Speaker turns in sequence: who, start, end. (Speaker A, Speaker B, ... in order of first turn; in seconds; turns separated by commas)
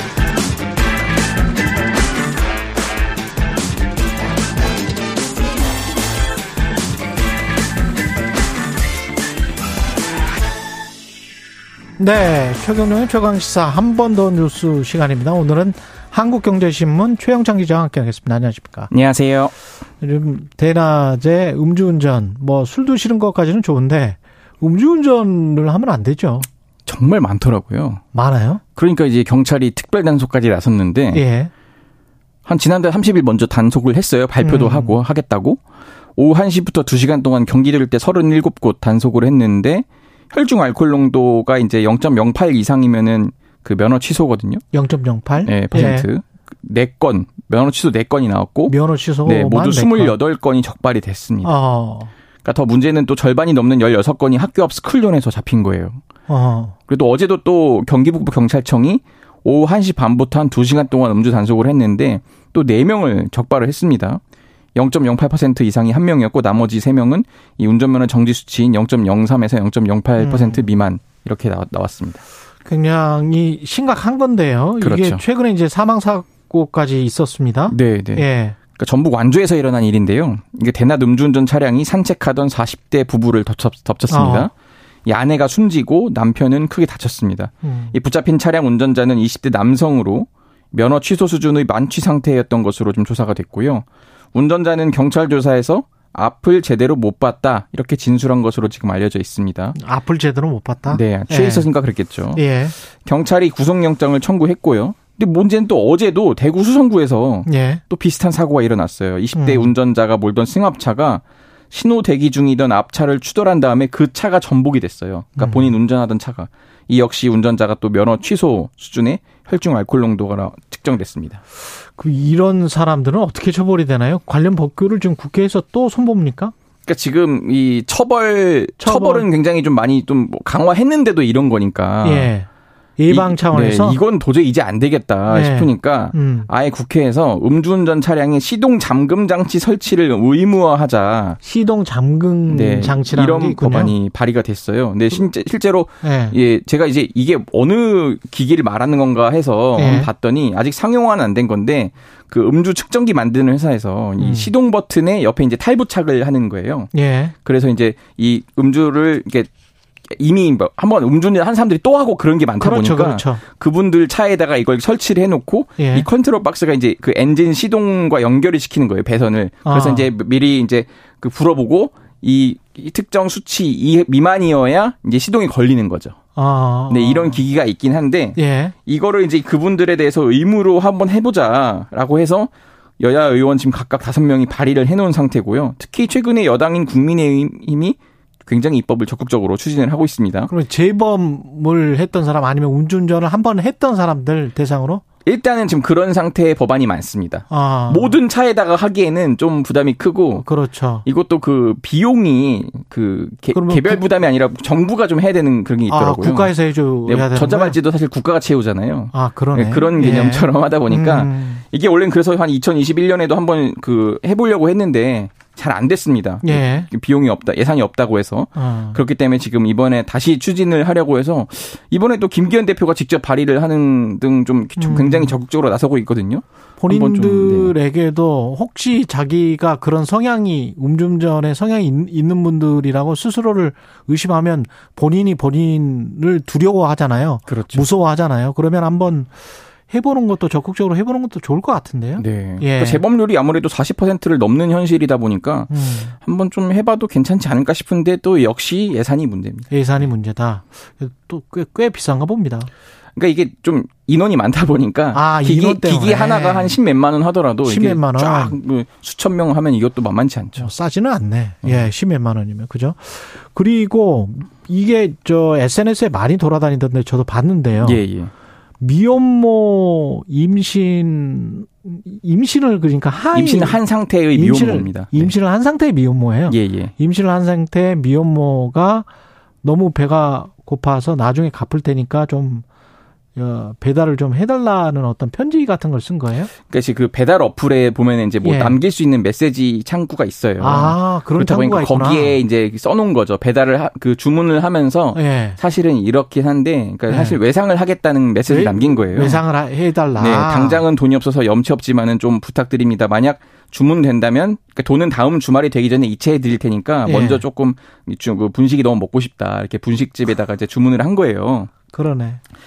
Speaker A: 12.0-18.9, Speaker B: 18.9-19.5, Speaker A: 20.0-26.5, Speaker B: 26.9-28.0, Speaker A: 28.1-28.6, Speaker B: 28.8-31.2, Speaker A: 31.1-31.5, Speaker B: 32.5-35.6, Speaker A: 34.4-35.0, Speaker B: 36.2-44.6, Speaker A: 44.7-46.1, Speaker B: 45.4-51.5, Speaker A: 48.7-50.2, Speaker A: 51.4-52.1, Speaker B: 52.4-56.0, Speaker A: 56.3-56.8, Speaker B: 56.9-64.2, Speaker B: 64.8-72.2, Speaker A: 70.2-70.7, Speaker A: 72.7-78.6, Speaker B: 74.8-75.2, Speaker B: 77.7-84.5, Speaker A: 84.1-84.5, Speaker B: 85.1-99.8, Speaker A: 87.6-88.0, Speaker A: 99.8-101.7, Speaker B: 100.9-102.4, Speaker A: 102.3-102.8, Speaker B: 103.0-121.4, Speaker A: 107.5-107.8, Speaker A: 109.3-109.7, Speaker A: 115.4-115.7, Speaker A: 121.8-126.5, Speaker B: 126.9-132.3, Speaker A: 128.8-129.3, Speaker A: 132.0-132.5, Speaker A: 133.0-134.0, Speaker B: 133.1-141.4, Speaker A: 135.3-136.5, Speaker A: 141.4-143.9, Speaker B: 142.5-156.9, Speaker A: 146.0-146.4, Speaker A: 149.8-150.1, Speaker A: 154.2-154.5, Speaker A: 156.9-157.3, Speaker B: 157.4-159.5, Speaker B: 160.2-176.2, Speaker A: 162.6-163.4, Speaker A: 165.8-166.1, Speaker A: 169.7-170.1, Speaker A: 176.3-177.4, Speaker B: 176.9-190.5, Speaker A: 178.4-178.8, Speaker A: 190.5-195.0, Speaker B: 195.2-200.5, Speaker A: 197.5-198.2, Speaker A: 200.4-201.1, Speaker B: 201.1-206.5, Speaker A: 203.5-204.1, Speaker A: 205.9-207.8, Speaker B: 207.1-227.8, Speaker A: 209.1-211.6, Speaker A: 216.4-216.9, Speaker A: 218.6-219.0, Speaker A: 224.8-225.3, Speaker A: 226.8-239.3, Speaker B: 237.5-237.8, Speaker A: 239.9-243.0, Speaker B: 242.2-249.7, Speaker A: 245.7-246.2, Speaker A: 249.7-252.7, Speaker B: 253.2-260.7, Speaker A: 255.1-256.8, Speaker A: 257.6-258.6, Speaker A: 260.6-268.1, Speaker B: 261.6-261.9, Speaker B: 267.8-268.3, Speaker A: 268.8-273.8, Speaker B: 273.3-275.3, Speaker A: 274.3-279.1, Speaker B: 276.5-276.9, Speaker A: 279.6-282.7, Speaker A: 283.4-286.5, Speaker B: 286.7-299.4, Speaker A: 288.4-288.8, Speaker A: 290.6-292.4, Speaker A: 295.1-295.6, Speaker A: 297.1-297.4, Speaker A: 298.5-300.9, Speaker B: 300.2-311.7, Speaker A: 307.1-307.4, Speaker A: 311.9-312.4